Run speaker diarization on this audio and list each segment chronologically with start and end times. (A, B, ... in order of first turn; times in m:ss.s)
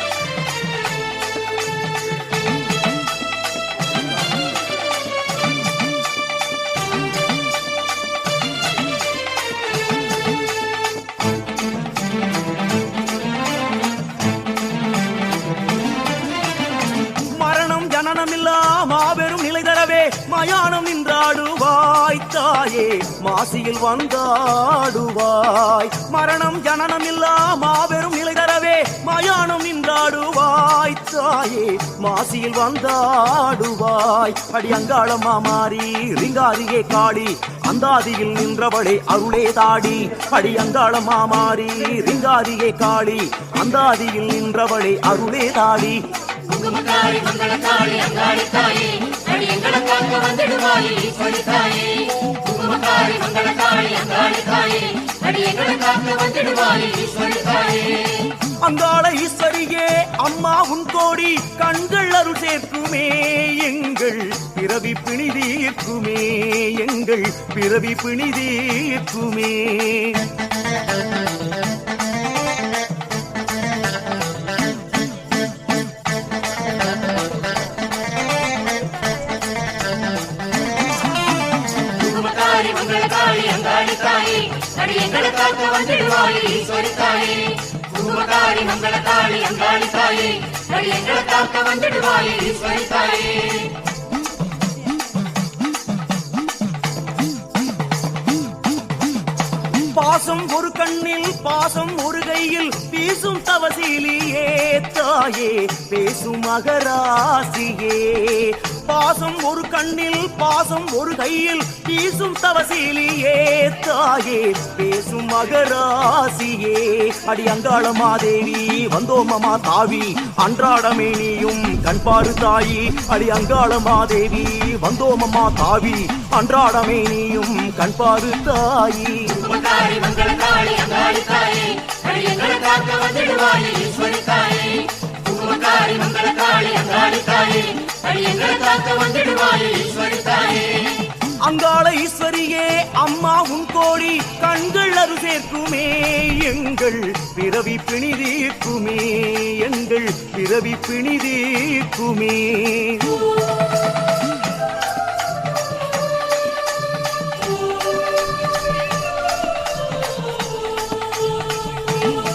0:17.3-0:46.0 A
0:46.5-0:58.3 B
0:58.6-1:10.2 A
1:21.9-1:33.7 B
1:39.9-2:09.2 A
2:09.3-2:21.0 B
2:21.4-2:33.2 A